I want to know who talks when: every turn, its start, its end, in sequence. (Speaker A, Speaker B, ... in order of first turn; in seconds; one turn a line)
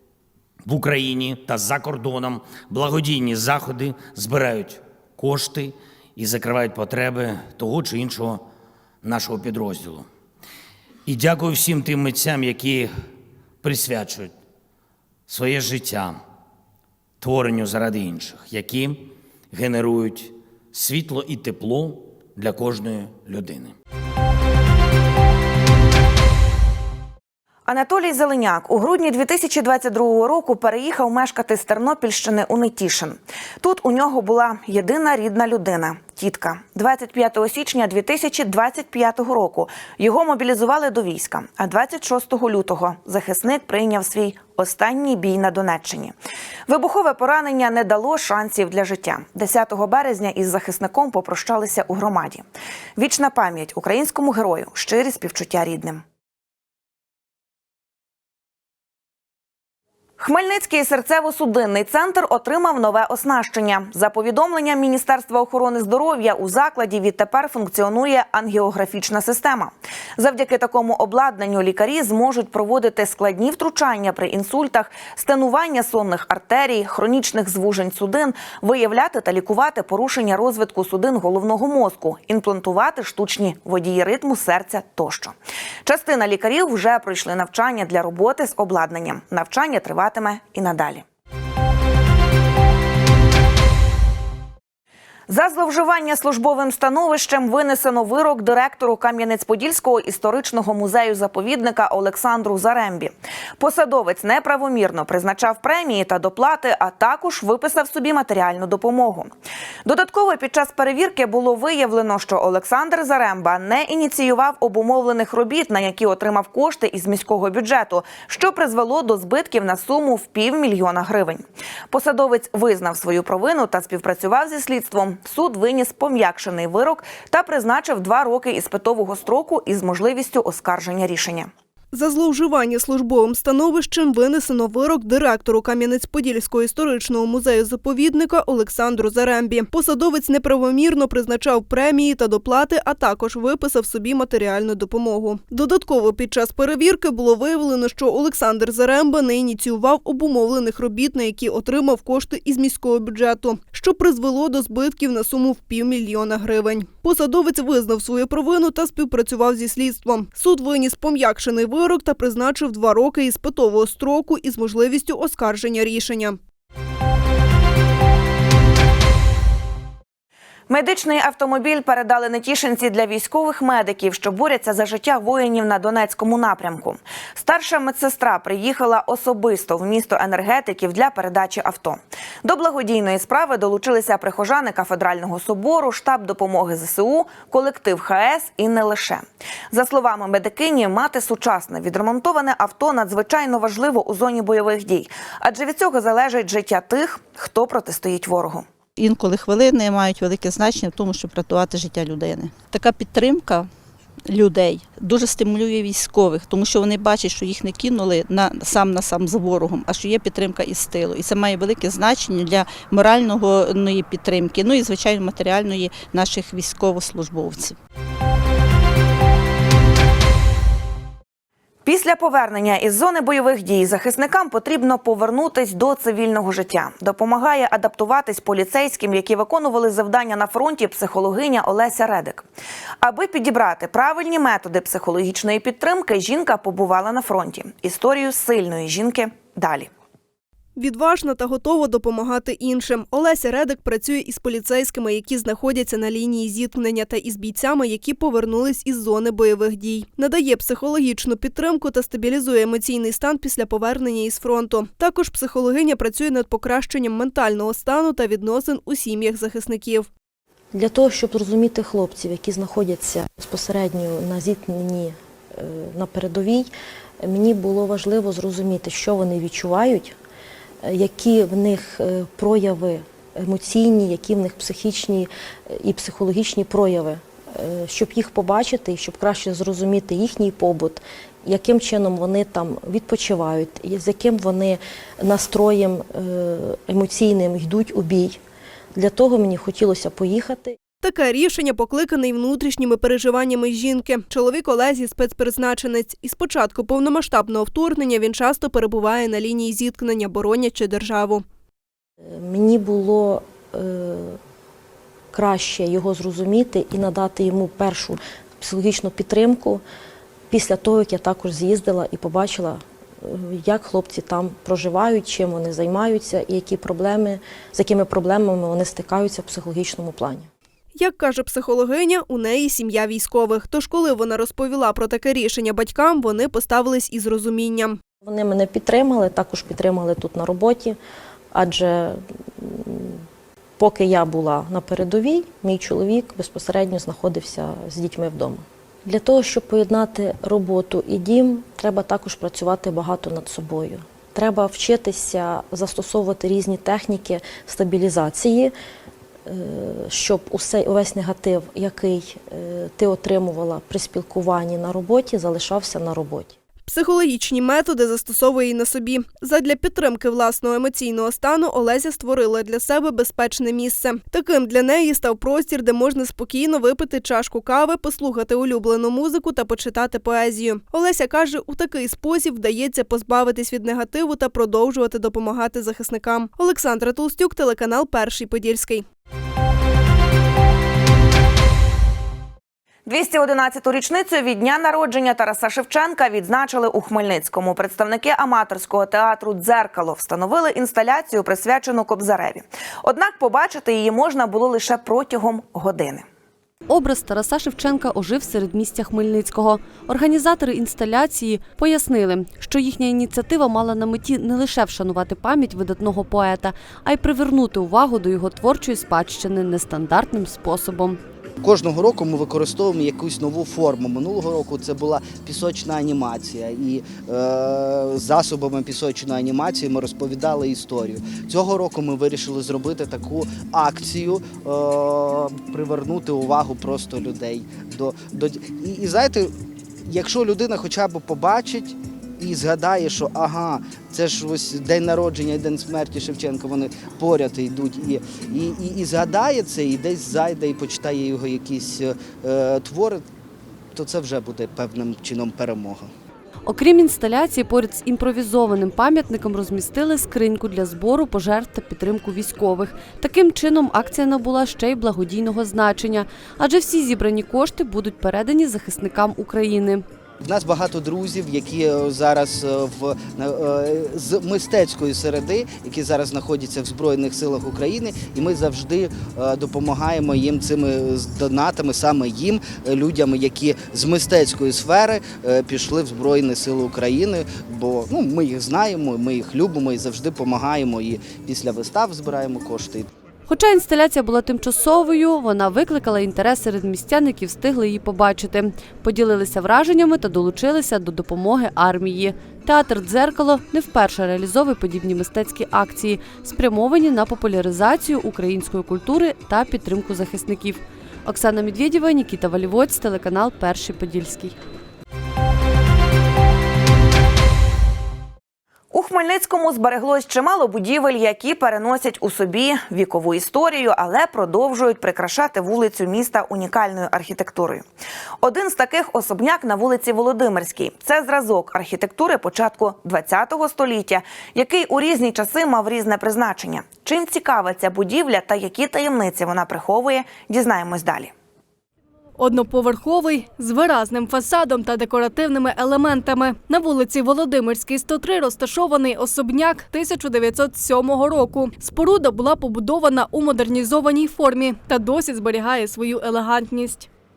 Speaker A: 0.7-8.4
Speaker A: 9.0-10.1
Speaker A: 11.1-12.9
Speaker A: 13.6-14.3
Speaker A: 15.3-16.2
Speaker A: 17.2-23.8
Speaker B: 27.7-46.1
Speaker B: 46.7-52.5
Speaker B: 53.0-56.0
Speaker B: 60.2-85.3
Speaker B: 85.8-91.0
Speaker B: 95.3-109.3
Speaker B: 109.8-131.5
Speaker C: 131.9-166.4
Speaker B: 170.7-198.7
Speaker D: 199.0-203.7
Speaker D: 204.3-217.8
Speaker B: 221.8-232.4
Speaker B: 233.0-239.9
Speaker C: 240.8-260.1
Speaker E: 260.8-266.7
Speaker E: 267.2-270.1
Speaker E: 270.9-288.4
Speaker E: 289.0-290.8
Speaker C: 291.0-301.4
Speaker E: 302.4-304.4
Speaker E: 305.3-309.8
Speaker E: 310.5-320.5
Speaker C: 321.0-328.0
Speaker E: 328.2-331.0
Speaker E: 331.6-333.2
Speaker E: 333.8-348.7
Speaker E: 349.5-356.5
Speaker C: 356.9-379.1
Speaker B: 383.1-396.2
Speaker F: 396.9-411.2
Speaker G: 411.6-429.5
Speaker G: 430.1-443.2
Speaker G: 443.9-446.1
Speaker F: 446.7-460.0
Speaker G: 460.4-483.1
Speaker F: 483.5-504.6
Speaker B: 508.9-517.8
Speaker B: 518.4-531.3
Speaker H: 532.4-547.1